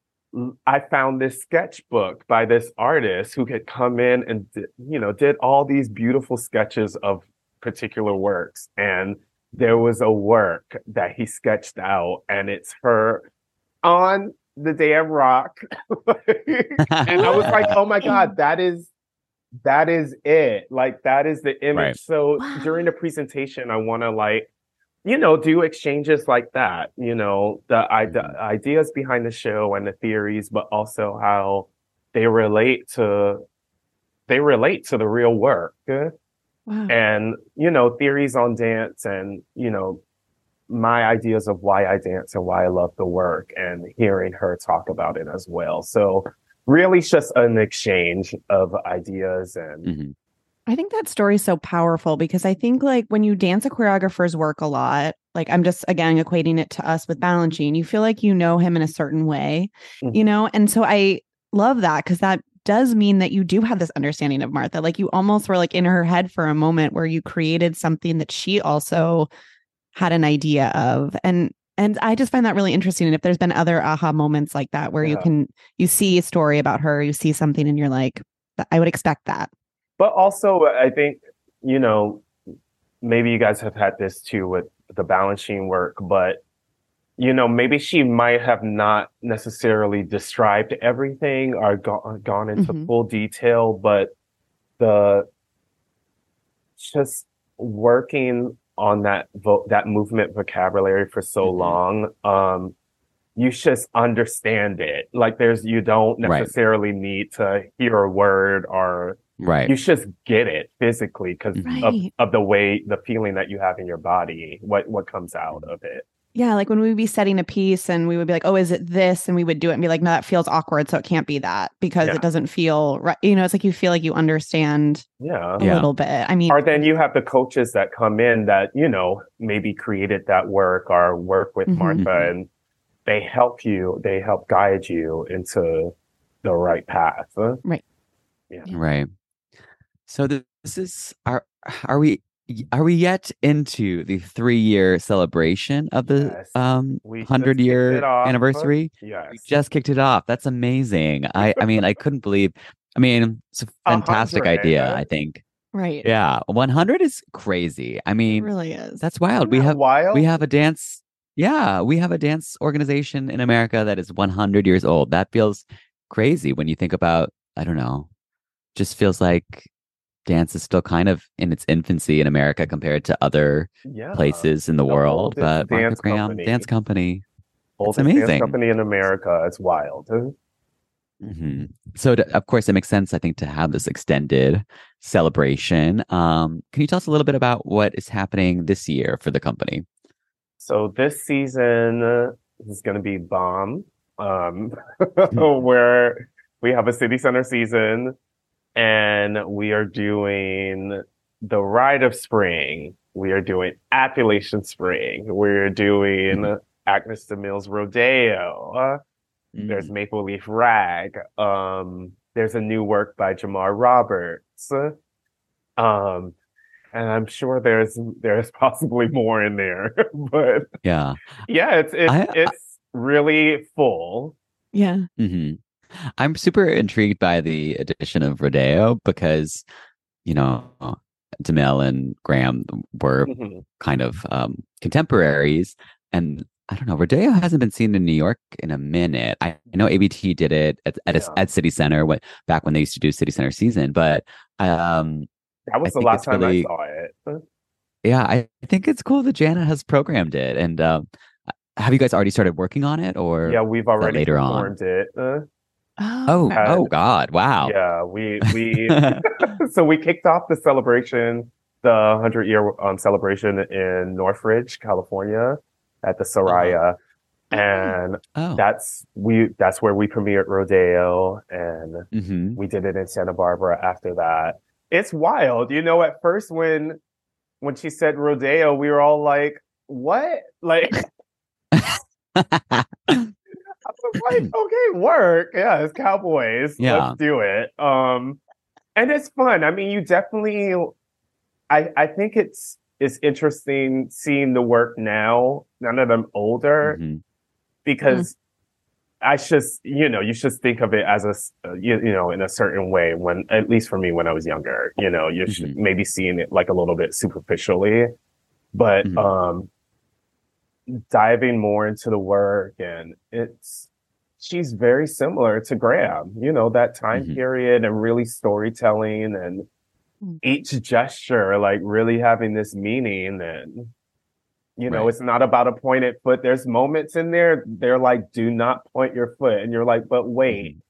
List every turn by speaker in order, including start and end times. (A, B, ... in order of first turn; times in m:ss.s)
0:00.3-0:13.3 A
0:13.8-0:18.9 A
0:16.9-0:17.7 B
0:17.2-0:18.4 C
0:19.6-0:24.5 A
0:22.4-0:22.7 C
0:25.0-0:33.4 A
0:28.0-0:28.4 B
0:34.3-0:36.1 A
0:36.7-0:36.9 C
0:36.9-0:40.0 A
0:40.7-0:49.9 A
0:49.8-0:50.1 B
0:50.7-1:09.3 C
1:09.9-1:19.5 C
1:15.0-1:15.3 A
1:20.0-1:22.2 A
1:23.0-1:26.4 A
1:27.2-1:34.1 A
1:32.6-1:32.9 C
1:34.8-1:35.3 A
1:36.8-1:42.7 A
1:41.4-1:41.8 B
1:43.4-1:56.0 A
1:46.2-1:46.5 B
1:49.4-1:49.7 B
1:51.6-1:51.9 B
1:51.6-1:52.1 C
1:56.3-2:05.0 C
2:05.2-2:05.6 A
2:05.6-2:05.9 B
2:05.6-2:06.8 C
2:06.5-2:12.5 A
2:11.7-2:12.0 C
2:12.0-2:12.3 B
2:13.0-2:17.6 A
2:18.7-2:19.1 B
2:20.1-2:35.4 B
2:26.1-2:29.4 A
2:33.8-2:35.0 A
2:35.7-2:36.1 C
2:36.0-2:48.1 B
2:38.3-2:39.0 C
2:39.4-2:40.3 A
2:48.7-2:49.7 B
2:50.2-2:57.2 B
2:53.8-2:56.7 A
2:57.8-3:00.3 A
2:57.8-2:58.6 B
3:01.2-3:09.8 B
3:10.6-3:18.1 A
3:18.8-3:29.0 A
3:29.5-3:29.9 B
3:29.6-3:34.9 A
3:35.8-3:36.3 A
3:36.9-3:40.7 A
3:40.8-3:41.2 B
3:41.5-3:44.4 A
3:42.1-3:42.5 B
3:44.7-3:45.1 C
3:45.2-3:45.6 B
3:46.2-3:49.6 B
3:50.2-4:05.3 B
3:53.2-3:53.6 A
4:01.1-4:01.4 A
4:05.7-4:07.4 A
4:05.8-4:06.7 B
4:08.0-4:11.0 B
4:11.7-4:14.7 B
4:13.4-4:15.4 A
4:16.0-4:16.6 C
4:16.3-4:17.7 B
4:16.5-4:16.9 A
4:17.6-4:27.0 A
4:18.8-4:19.2 B
4:26.4-4:26.8 B
4:27.5-4:37.0 A
4:27.5-4:27.9 C
4:28.4-4:28.6 B
4:32.1-4:32.6 B
4:37.6-4:41.1 A
4:41.7-4:43.3 B
4:43.8-4:48.4 A
4:46.8-4:47.2 B
4:49.0-4:50.9 A
4:51.7-4:57.0 A
4:56.8-4:57.2 B
4:57.8-4:58.4 A
4:59.2-5:08.1 A
5:05.5-5:05.8 B
5:08.7-5:09.7 A
5:09.0-5:09.3 B
5:10.9-5:13.9 A
5:14.4-5:19.6 A
5:17.1-5:17.4 B
5:20.4-5:23.9 A
5:24.8-5:30.7 A
5:24.9-5:25.1 B
5:30.5-5:30.8 B